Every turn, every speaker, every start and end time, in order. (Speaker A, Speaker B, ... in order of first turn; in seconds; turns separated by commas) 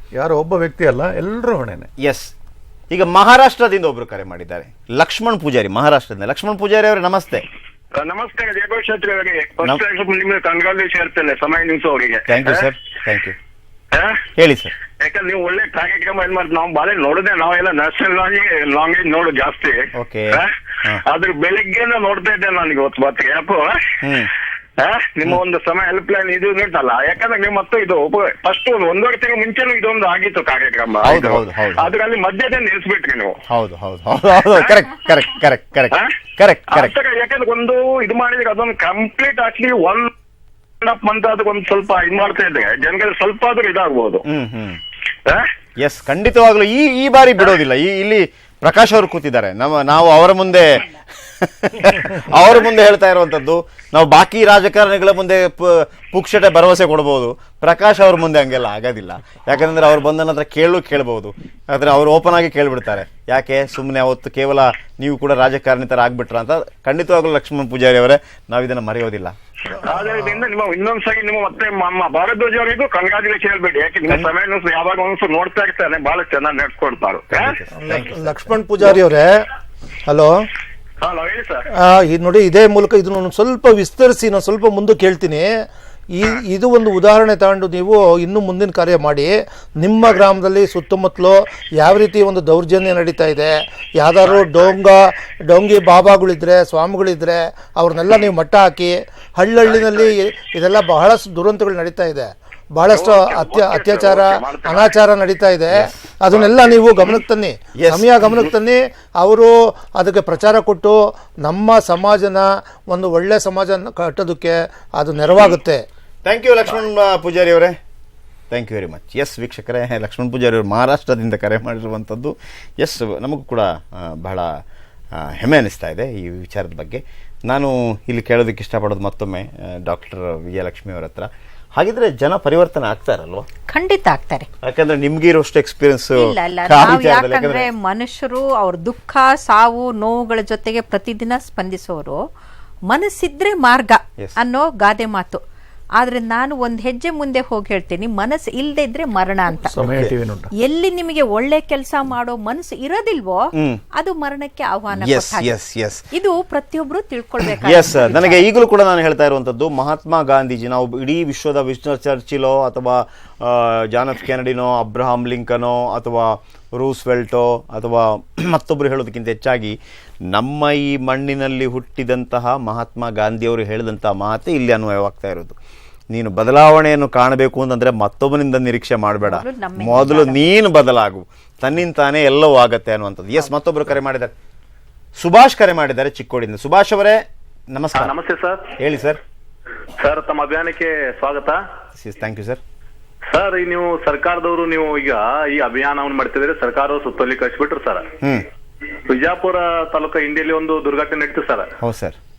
Speaker A: 0.2-1.9, Speaker B: 2.0-2.3, Speaker B: 2.9-7.5, Speaker C: 7.9-12.7, Speaker B: 12.2-13.3, Speaker C: 13.9-14.2, Speaker B: 14.4-14.7, Speaker C: 15.0-23.8, Speaker B: 20.0-21.0, Speaker C: 24.8-33.3, Speaker B: 31.0-31.9, Speaker B: 33.5-37.0, Speaker C: 34.5-34.8, Speaker C: 36.7-40.1, Speaker C: 40.8-44.2, Speaker B: 44.2-44.8, Speaker B: 45.8-69.3, Speaker C: 69.8-77.5, Speaker D: 70.0-70.4, Speaker B: 74.1-74.3, Speaker B: 77.3-78.5, Speaker D: 77.8-79.4, Speaker D: 80.0-80.3, Speaker C: 81.0-81.6, Speaker D: 81.7-85.5, Speaker D: 86.1-115.8, Speaker C: 99.6-100.2, Speaker C: 102.9-104.9, Speaker B: 105.8-107.2, Speaker B: 107.8-108.5, Speaker B: 116.2-117.8, Speaker B: 118.5-124.5, Speaker B: 125.2-133.4, Speaker E: 133.7-134.5, Speaker B: 134.6-137.7, Speaker E: 136.2-142.2, Speaker E: 142.9-145.4, Speaker E: 146.0-149.8, Speaker A: 149.7-150.5, Speaker B: 149.8-150.1, Speaker E: 150.6-155.5, Speaker B: 154.9-156.0, Speaker E: 156.1-158.4, Speaker B: 157.5-169.8, Speaker B: 170.3-175.5, Speaker B: 176.1-184.3, Speaker E: 179.2-180.4, Speaker B: 185.2-188.2, Speaker F: 187.9-188.6, Speaker B: 188.8-189.2, Speaker F: 190.0-191.6, Speaker B: 192.0-192.6, Speaker F: 193.3-198.0, Speaker F: 199.1-201.7, Speaker B: 201.8-202.2